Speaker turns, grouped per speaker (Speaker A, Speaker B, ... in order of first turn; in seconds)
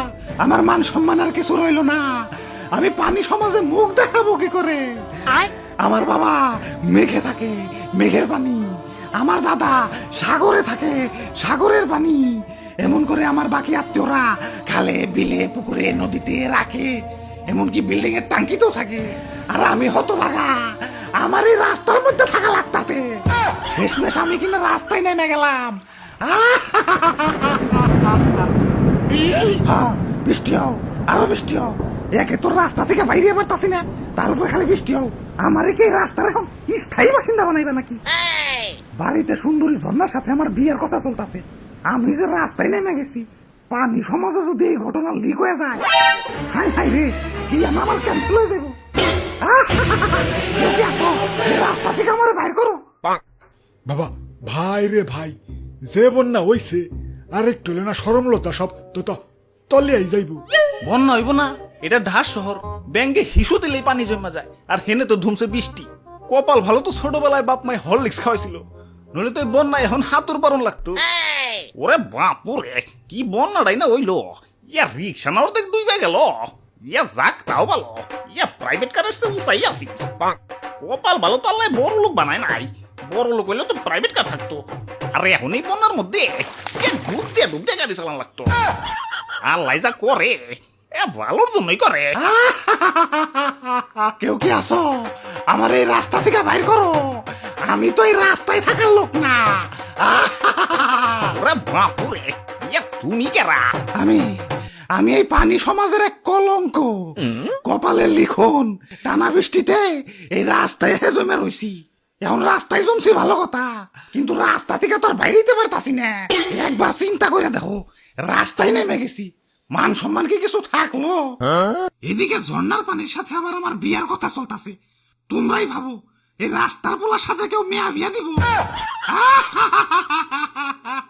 Speaker A: 0.4-2.0, 2.8-4.8, 5.4-6.4, 6.9-8.6, 9.2-12.2, 12.8-16.9, 17.5-23.0, 23.8-28.2, 29.6-38.0, 39.0-45.8, 46.5-48.8, 49.4-52.8, 92.2-101.4, 104.0-104.2, 104.9-121.4, 122.0-124.8, 125.3-128.4, 129.1-130.6
Speaker B: 53.9-55.4, 55.9-56.8, 57.4-59.2, 59.7-60.4
Speaker C: 60.9-68.6, 69.2-71.0, 71.8-80.1, 80.8-84.6, 85.2-88.5, 89.4-92.1, 101.4-103.8